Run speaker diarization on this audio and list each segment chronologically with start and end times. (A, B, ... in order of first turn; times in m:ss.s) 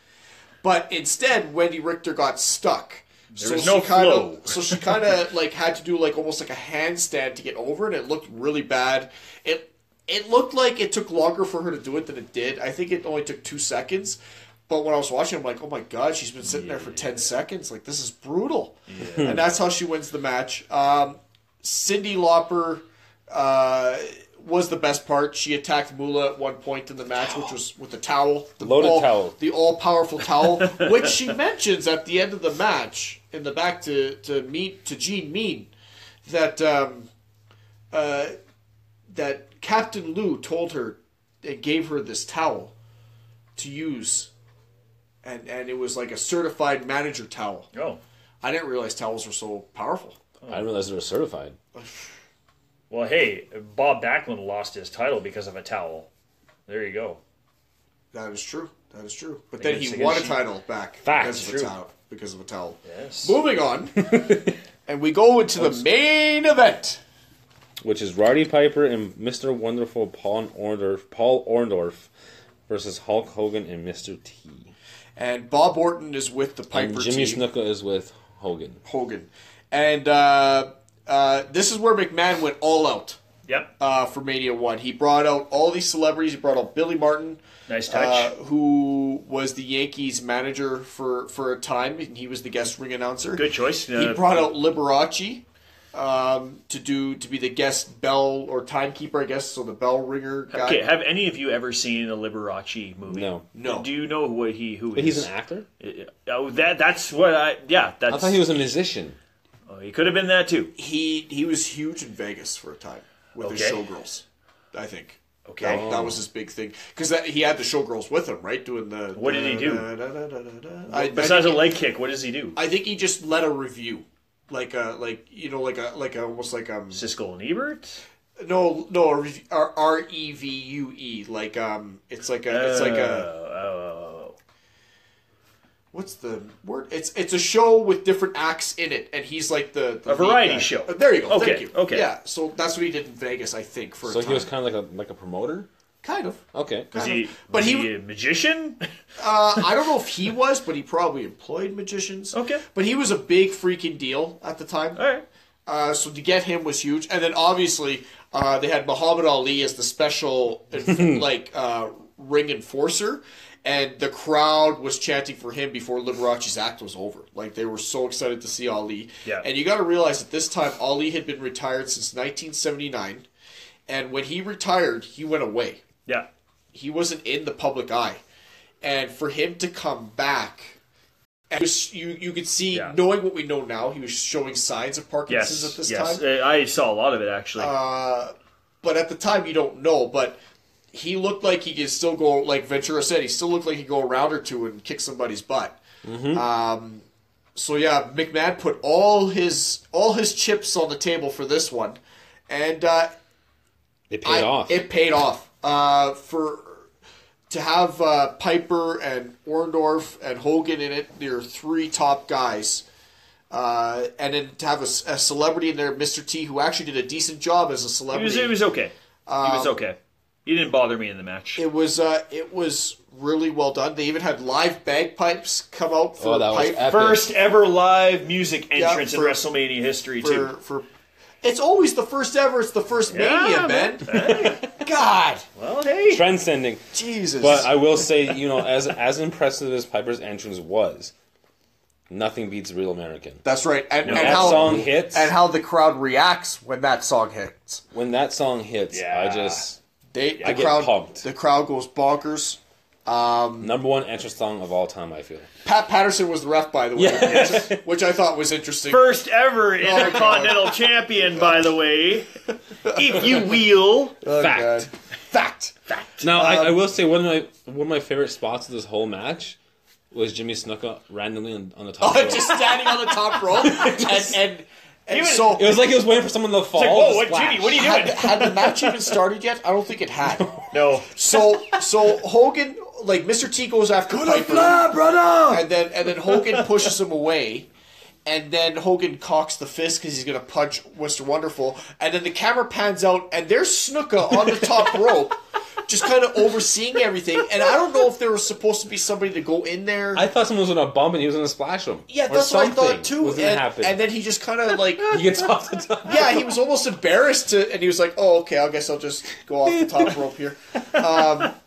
0:00.6-0:14.2 A
0:03.4-0:05.1 B
0:14.7-0:35.7 A
0:16.4-0:17.1 B
0:18.9-0:19.4 B
0:19.1-0:19.4 C
0:28.6-0:29.4 C
0:30.7-0:31.1 B
0:36.2-0:37.1 A
0:37.9-0:38.3 A
0:39.1-0:42.7 A
0:43.6-0:44.3 A
0:45.2-0:47.7 A
0:47.7-0:48.0 B
0:48.4-0:50.2 A
0:50.5-0:51.6 C
0:51.7-0:52.1 A
0:52.9-0:56.1 B
0:56.7-0:57.2 B
0:58.1-1:04.1 A
0:59.6-1:00.4 B
1:01.0-1:01.4 C
1:01.1-1:01.7 B
1:02.8-1:03.4 B
1:04.0-1:04.5 C
1:04.9-1:07.0 A
1:05.6-1:05.8 C
1:07.8-1:12.1 C
1:12.7-1:14.7 C
1:15.2-1:17.4 A
1:16.7-1:18.8 C
1:18.8-1:23.2 A
1:23.8-1:40.8 A
1:27.7-1:28.3 B
1:33.4-1:34.5 B
1:40.5-1:48.5 B
1:43.1-1:43.4 C
1:43.5-1:43.9 A
1:44.9-1:45.7 C
1:48.1-1:49.2 C
1:49.7-1:50.7 B
1:50.8-2:01.7 A
1:53.4-1:53.8 B
1:55.4-1:55.9 B
1:55.6-1:56.2 C
1:59.1-1:59.9 B
2:00.9-2:02.6 B
2:02.6-2:07.0 A
2:06.9-2:08.0 B
2:08.4-2:13.3 A
2:12.5-2:14.4 B
2:15.9-2:24.5 A
2:20.1-2:22.1 B
2:24.0-2:25.7 C
2:26.0-2:27.9 A
2:26.5-2:27.1 C
2:26.9-2:28.9 B
2:29.2-2:35.0 A
2:32.3-2:32.6 B
2:35.0-2:35.2 B
2:35.7-2:53.2 A
2:40.9-2:41.2 C
2:53.9-2:55.8 A
2:56.7-2:58.2 A
2:58.8-3:00.8 A
3:01.5-3:06.2 A
3:02.7-3:03.0 B
3:05.3-3:07.7 B
3:07.6-3:10.4 A
3:10.9-3:15.8 A
3:16.0-3:16.4 C
3:16.3-3:17.0 A
3:17.6-3:23.1 A
3:24.1-3:24.8 C
3:24.2-3:26.8 A
3:27.5-3:32.8 A
3:33.5-3:38.6 A
3:38.1-3:41.6 B
3:39.3-3:39.8 A
3:41.6-3:46.9 A
3:46.2-3:47.3 C
3:46.8-3:50.5 B
3:48.7-3:49.4 A
3:50.2-3:50.8 A
3:51.4-3:55.4 A
3:53.1-3:54.7 B
3:54.1-3:54.6 C
3:55.6-3:56.2 B
3:56.1-4:01.1 C
3:56.9-3:57.7 A
4:02.1-4:03.4 C
4:03.4-4:07.8 A
4:04.0-4:04.7 B
4:04.0-4:05.3 C
4:07.9-4:09.8 C
4:08.9-4:09.6 B
4:10.1-4:13.7 A
4:10.4-4:11.2 C
4:13.6-4:15.5 C
4:15.6-4:19.1 A
4:16.9-4:17.8 C
4:17.2-4:17.7 B
4:18.9-4:24.2 B
4:19.8-4:20.8 A
4:22.8-4:23.5 A
4:24.2-4:26.8 A
4:24.3-4:24.9 C
4:26.2-4:29.6 C
4:30.1-4:34.4 C
4:32.0-4:35.9 A
4:35.1-4:35.7 B
4:35.5-4:37.9 C
4:36.7-4:39.2 B
4:37.7-4:44.9 A
4:40.7-4:41.2 B
4:44.1-4:45.6 C
4:45.5-4:47.7 A
4:46.4-4:46.8 B
4:48.2-5:00.2 A
5:00.1-5:04.0 C
5:02.1-5:05.3 A
5:05.0-5:06.6 C
5:06.0-5:11.6 A
5:09.6-5:10.2 C